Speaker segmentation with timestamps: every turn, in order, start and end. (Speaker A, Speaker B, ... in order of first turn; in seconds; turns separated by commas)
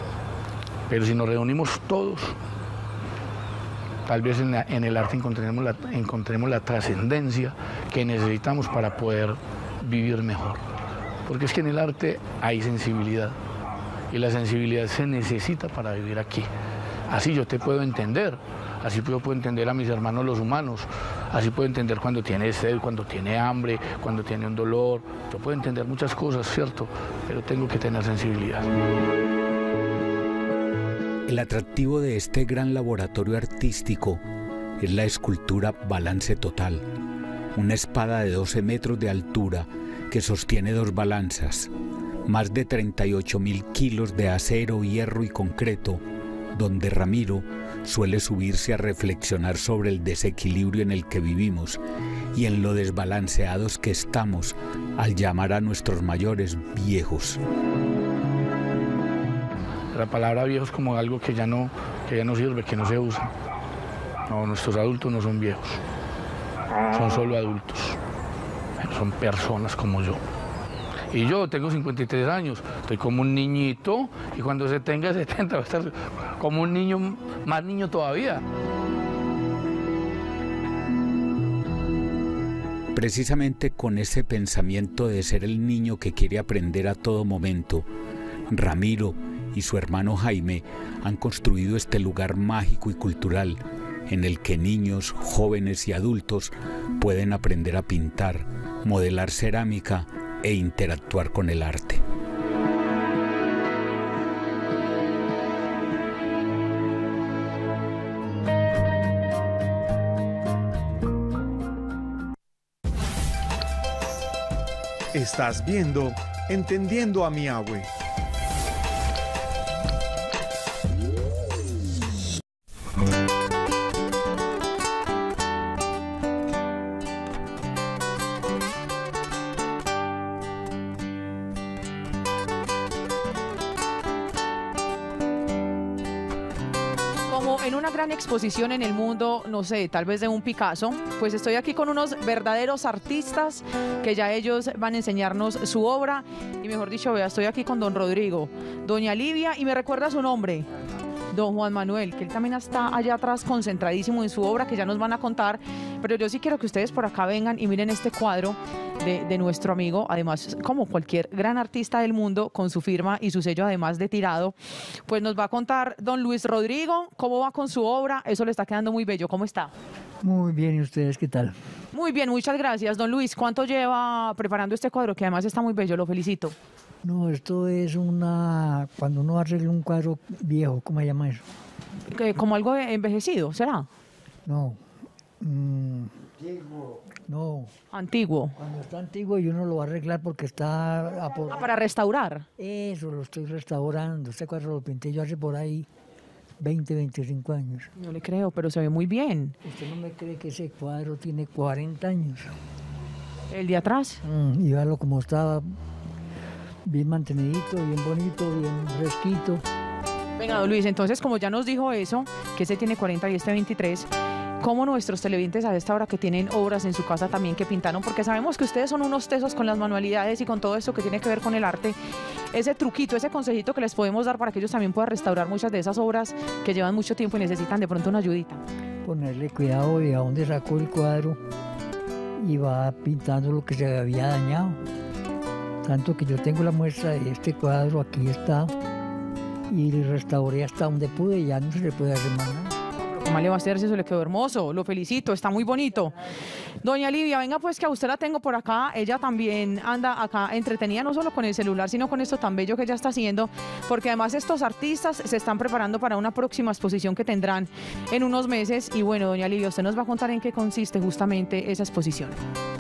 Speaker A: 0.9-2.4, Speaker A: 4.1-10.6, Speaker A: 11.3-13.4, Speaker A: 14.1-16.5, Speaker A: 17.1-28.7, Speaker B: 31.3-34.2, Speaker B: 34.8-36.9, Speaker B: 37.5-41.7, Speaker B: 42.3-46.0, Speaker B: 46.5-51.8, Speaker B: 52.3-57.4, Speaker A: 59.9-63.3, Speaker A: 64.3-65.8, Speaker A: 66.9-68.0, Speaker A: 68.8-70.2, Speaker A: 71.1-78.4, Speaker B: 82.9-87.9, Speaker B: 88.5-102.0, Speaker C: 115.1-117.9, Speaker D: 137.3-150.7, Speaker D: 151.3-164.6, Speaker D: 165.1-169.7, Speaker E: 170.2-171.6, Speaker D: 171.9-176.6, Speaker E: 177.0-181.4, Speaker D: 182.1-183.9, Speaker E: 184.5-184.8, Speaker E: 185.4-186.3, Speaker E: 187.3-187.7, Speaker D: 187.9-188.6, Speaker E: 188.6-191.6, Speaker D: 191.5-192.5, Speaker E: 192.6-195.9, Speaker E: 196.6-197.9, Speaker D: 198.0-199.6, Speaker E: 199.6-202.5, Speaker D: 203.5-204.2, Speaker E: 204.2-205.7, Speaker E: 206.9-209.6, Speaker D: 210.4-214.1, Speaker D: 214.6-222.0, Speaker D: 222.5-228.6, Speaker E: 229.1-231.4, Speaker E: 232.4-234.8, Speaker E: 235.8-238.7, Speaker E: 239.7-242.7, Speaker D: 243.0-246.2, Speaker D: 246.8-262.4